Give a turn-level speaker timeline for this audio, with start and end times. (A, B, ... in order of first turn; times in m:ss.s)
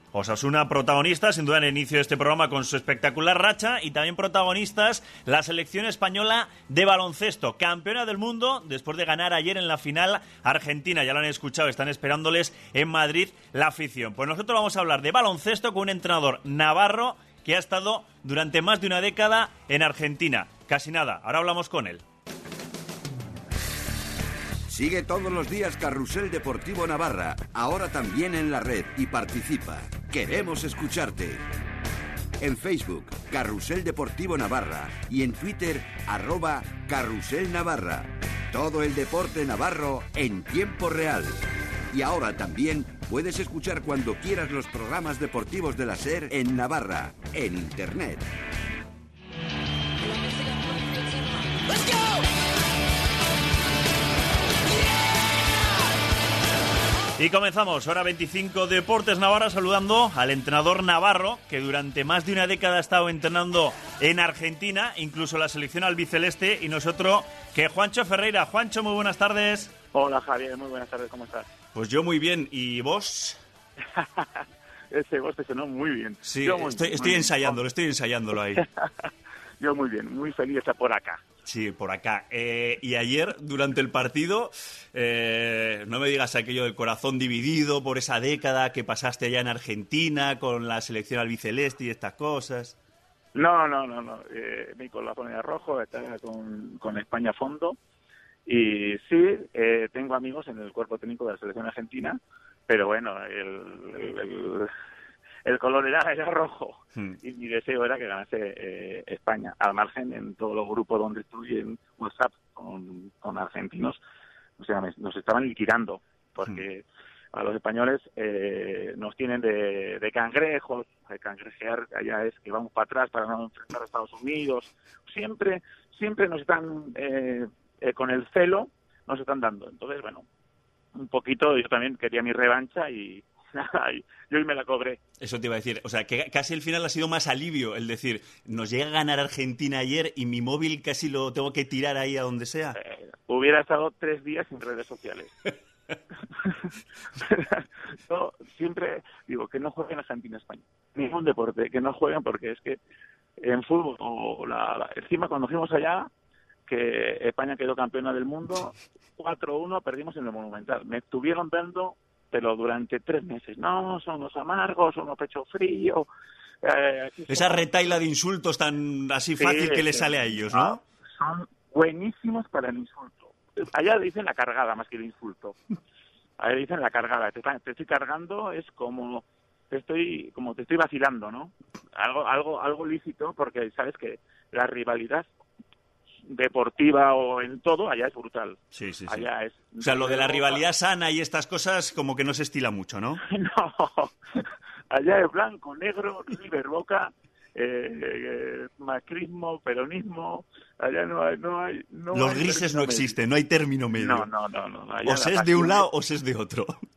0:00.1-0:22.0 A
0:24.7-0:31.4 B
0:32.4-0:41.4 B
0:41.9-0:48.2 B
0:57.2-1:09.7 A
1:09.9-1:11.5 C
1:11.7-1:13.4 A
1:13.9-1:17.6 C
1:16.2-1:18.6 A
1:18.6-1:19.1 C
1:19.6-1:21.2 C
1:21.4-1:32.8 A
1:33.4-1:37.8 C
1:38.5-1:44.7 C
1:45.4-1:54.0 C
1:54.6-2:10.2 C
2:11.0-2:15.0 C
2:15.2-2:22.8 A
2:22.8-2:25.3 C
2:26.4-2:32.8 C
2:33.4-2:36.1 C
2:36.7-2:46.1 C
2:46.6-2:47.7 C
2:47.3-2:50.8 A
2:49.4-2:55.6 C
2:56.4-3:05.3 C
3:06.3-3:10.6 C
3:08.7-3:09.3 A
3:09.8-3:13.2 A
3:13.3-3:14.4 C
3:14.9-3:23.2 C
3:22.1-3:24.3 A
3:23.9-3:25.9 C
3:25.0-3:26.8 A